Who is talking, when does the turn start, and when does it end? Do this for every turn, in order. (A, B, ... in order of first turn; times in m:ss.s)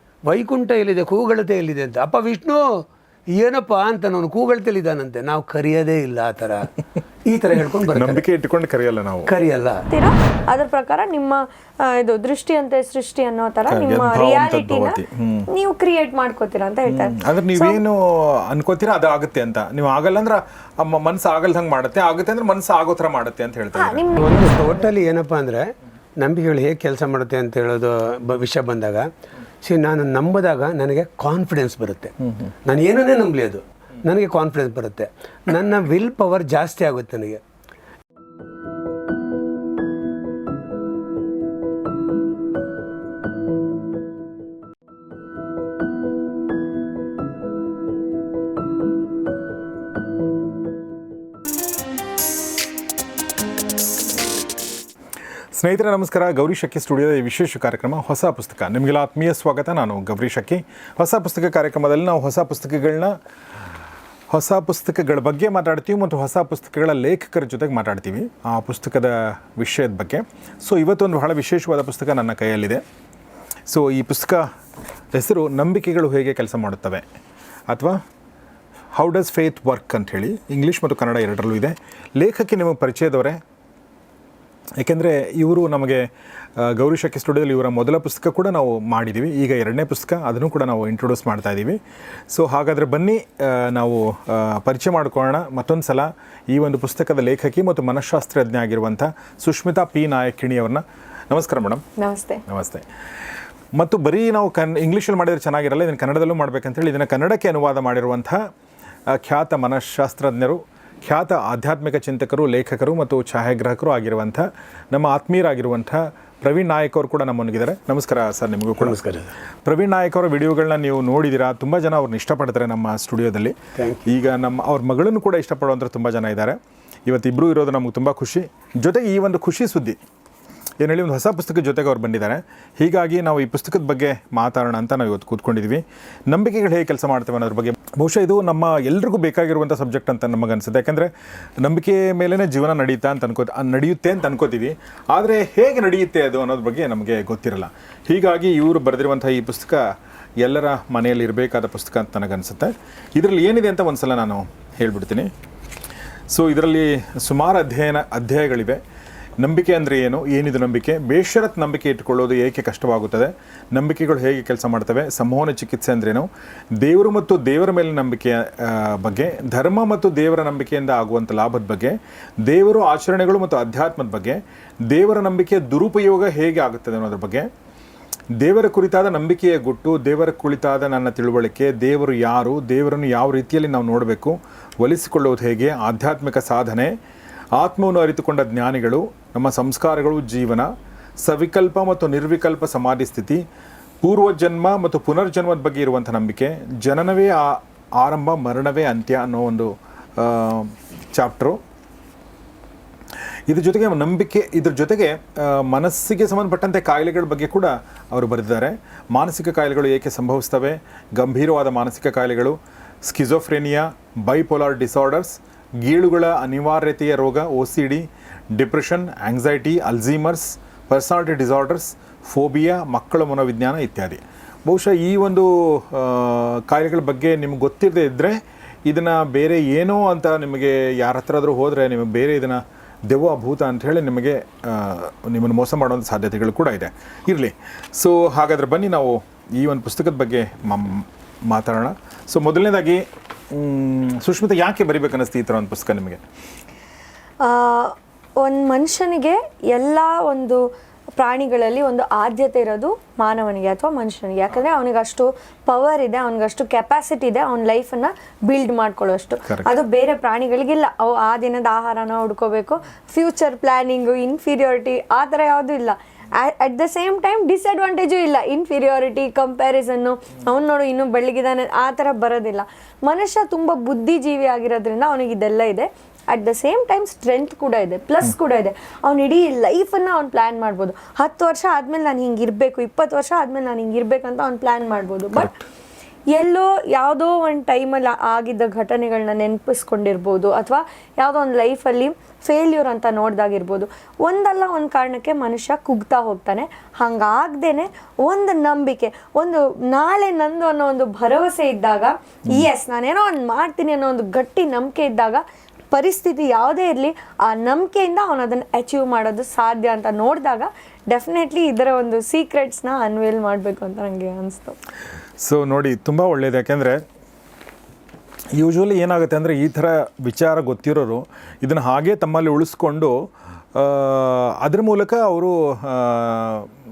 0:00.3-0:06.7 A
0:07.3-0:08.2 A
0:08.0-0:09.3 B
0:09.3-0:09.9 A
0:09.9-0:17.8 C
0:13.7-0:15.5 B
0:16.9-0:24.0 B
0:23.8-0:24.9 C
0:24.2-0:29.1 A
0:29.6-0:37.4 A
0:55.6-1:03.1 B
1:04.3-1:12.8 B
1:13.7-1:14.4 B
1:15.1-1:17.0 B
1:17.7-1:18.0 B
1:18.9-1:23.4 B
1:24.8-1:26.1 B
1:26.6-1:31.8 B
1:32.3-1:41.8 B
1:42.0-1:42.4 C
1:42.5-1:42.8 B
1:43.8-1:48.4 B
1:49.1-1:59.0 B
1:58.8-1:59.3 A
1:59.6-2:03.6 B
2:03.8-2:04.1 A
2:04.1-2:10.0 B
2:10.8-2:21.1 B
2:21.6-2:29.8 B
2:30.4-2:35.3 B
2:36.3-2:38.8 B
2:39.4-2:46.3 B
2:46.8-2:57.5 B
2:58.4-3:06.9 B
3:07.6-3:10.7 B
3:11.2-3:13.4 B
3:14.0-3:21.6 B
3:23.5-4:06.2 B
4:07.4-4:10.6 C
4:11.2-4:45.6 C
4:45.4-4:45.6 B
4:46.3-5:14.8 C
5:15.4-5:17.0 B
5:18.6-5:23.2 B
5:23.8-5:26.7 B